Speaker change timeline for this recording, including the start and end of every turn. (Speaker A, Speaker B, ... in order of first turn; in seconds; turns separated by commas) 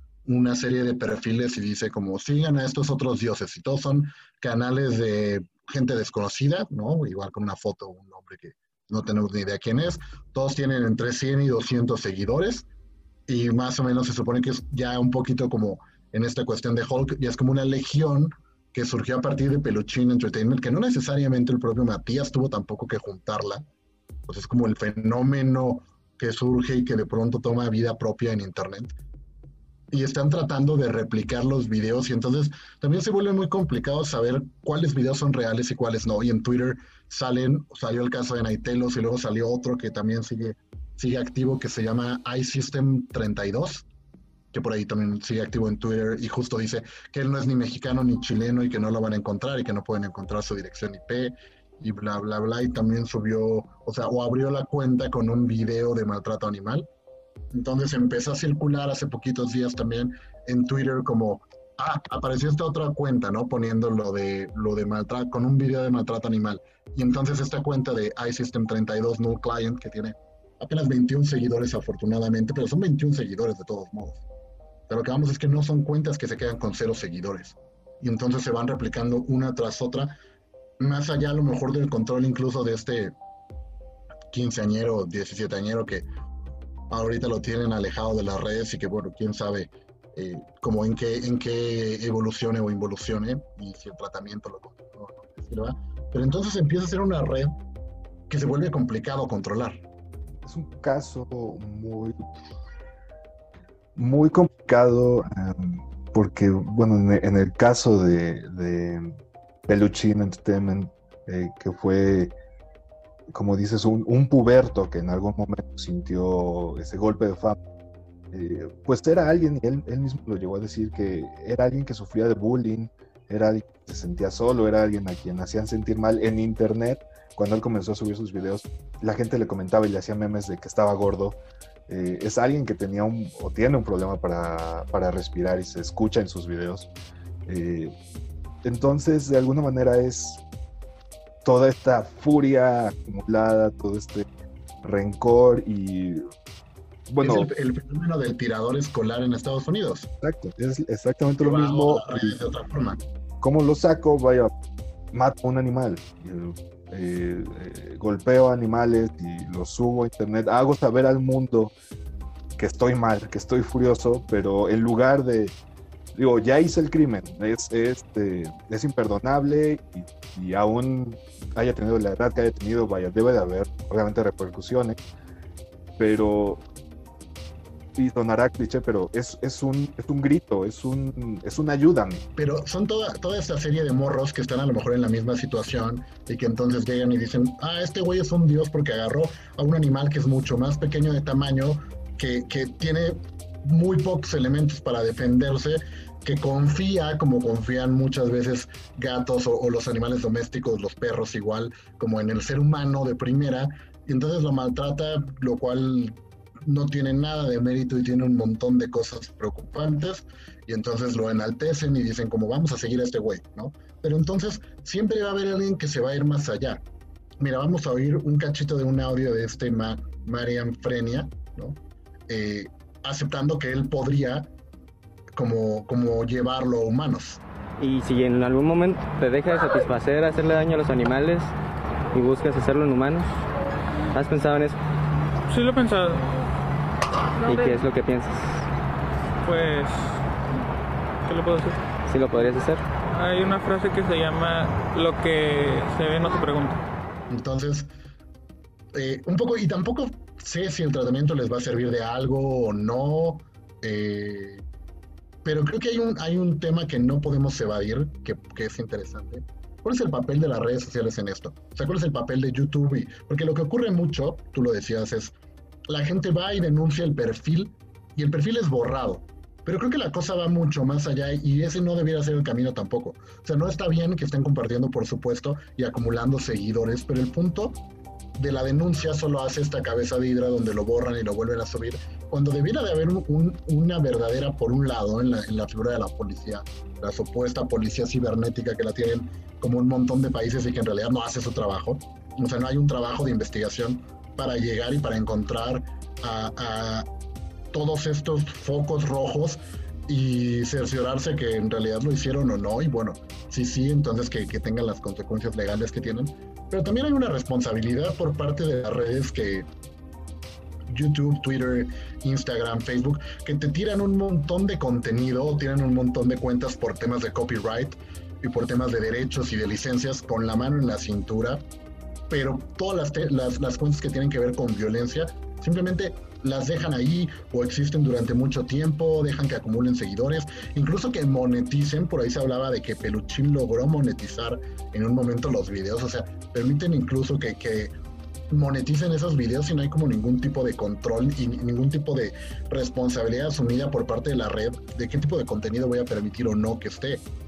Speaker A: 0.3-12.7, Speaker A: 13.3-23.6, Speaker A: 24.3-28.9, Speaker A: 29.9-43.9, Speaker A: 44.5-56.9, Speaker A: 57.5-74.2, Speaker A: 74.9-80.2, Speaker A: 80.8-83.2, Speaker A: 84.3-86.0, Speaker A: 86.9-97.5, Speaker A: 98.3-99.8, Speaker B: 100.4-102.2, Speaker B: 104.0-109.2, Speaker B: 109.7-112.3, Speaker B: 113.3-117.6, Speaker B: 118.3-136.9, Speaker B: 137.5-137.9, Speaker B: 138.6-140.4, Speaker B: 141.4-144.3, Speaker B: 144.8-146.2, Speaker B: 147.1-147.5, Speaker A: 147.2-150.1, Speaker B: 150.2-152.4, Speaker A: 151.4-153.0, Speaker B: 153.4-154.5, Speaker B: 155.1-161.7, Speaker B: 162.6-165.5, Speaker B: 166.1-175.0, Speaker B: 176.0-176.7, Speaker B: 178.0-182.3, Speaker A: 182.4-216.8, Speaker A: 217.4-224.5, Speaker A: 225.4-227.4, Speaker C: 227.8-231.5, Speaker C: 232.1-233.3, Speaker C: 234.1-234.8, Speaker D: 235.5-236.3, Speaker C: 237.5-238.6, Speaker D: 239.4-240.2, Speaker D: 241.2-241.8, Speaker C: 242.1-242.8, Speaker D: 243.1-246.8, Speaker A: 247.3-247.9, Speaker A: 248.9-254.6, Speaker A: 255.4-265.3, Speaker A: 265.9-277.8, Speaker A: 278.4-297.1, Speaker A: 297.7-309.7, Speaker A: 310.9-321.6, Speaker A: 322.3-337.9, Speaker A: 338.5-347.2